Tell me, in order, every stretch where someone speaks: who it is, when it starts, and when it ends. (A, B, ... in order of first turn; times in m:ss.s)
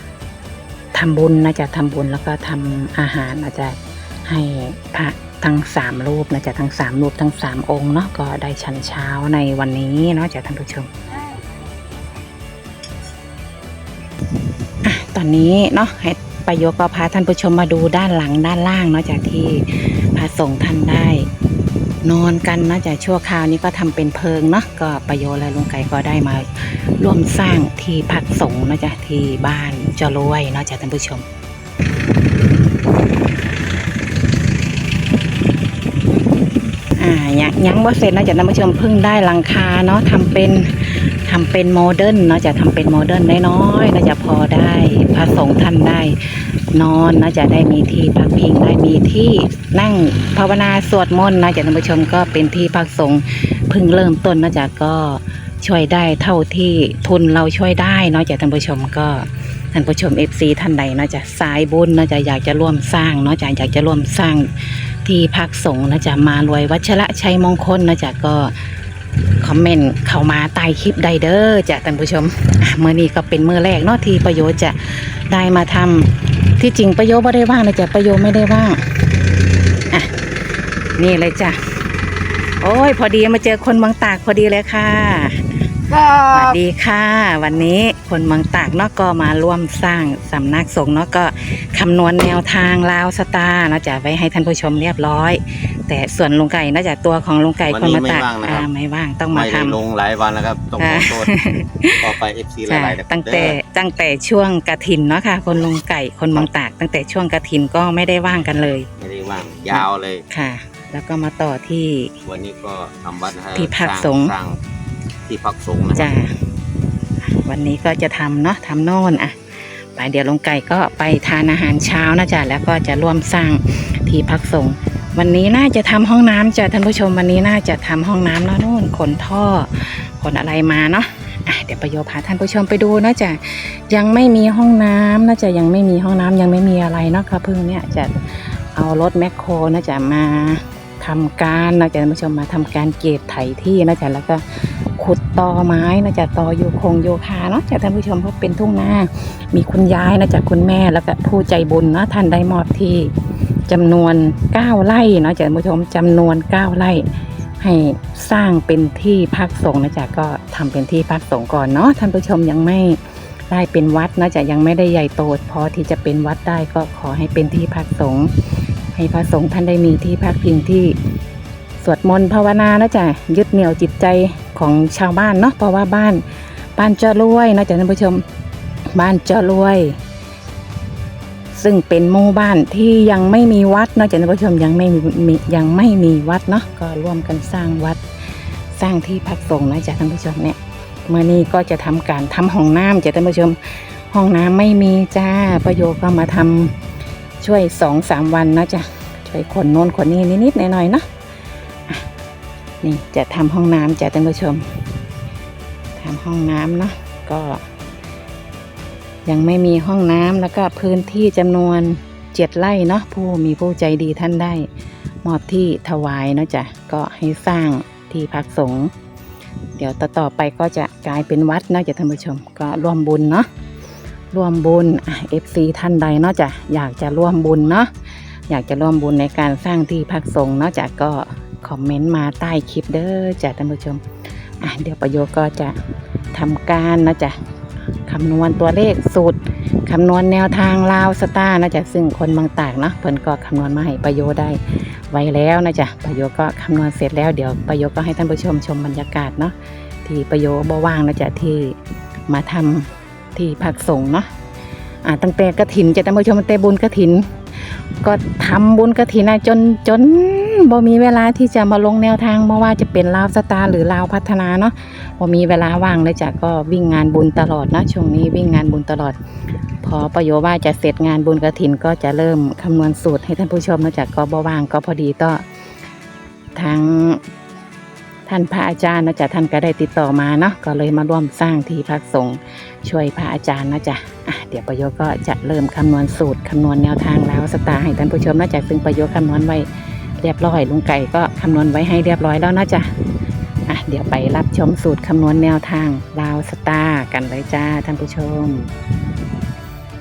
0:00.9-0:10.9 A
0:14.8-0:21.3 A
0:22.0-0:31.2 A
0:37.0-1:08.5 A
1:09.4-1:18.8 A
1:21.0-1:21.6 A
1:22.6-1:25.5 A
1:25.9-1:26.6 B
1:26.3-1:39.8 A
1:37.7-1:38.7 B
1:39.3-1:41.3 B
1:40.8-1:42.0 A
1:42.0-1:43.6 B
1:42.7-1:48.9 A
1:49.0-1:50.2 B
1:49.7-1:52.1 A
1:52.2-1:54.6 B
1:53.5-1:54.3 A
1:55.3-1:56.1 B
1:56.0-1:56.5 A
1:57.2-2:33.1 A
2:33.7-2:37.1 A
2:37.6-2:51.0 A
2:51.8-2:56.2 A
2:56.8-2:58.2 A
2:58.9-3:00.0 A
3:01.5-3:08.0 A
3:08.7-3:16.8 A
3:17.4-3:21.0 A
3:22.8-3:24.8 A
3:26.0-3:27.6 A
3:29.2-3:34.7 A
3:35.2-3:38.9 A
3:39.8-3:43.5 A
3:44.3-3:47.9 A
3:48.5-3:54.0 A
3:54.6-3:55.8 A
3:56.3-3:57.4 A
3:58.0-4:11.8 A
4:12.3-4:14.3 A
4:15.0-4:17.3 A
4:18.0-4:29.2 A
4:29.8-4:35.4 A
4:36.5-4:37.2 A
4:38.3-4:49.7 A
4:50.2-4:52.9 A
4:53.7-4:58.7 A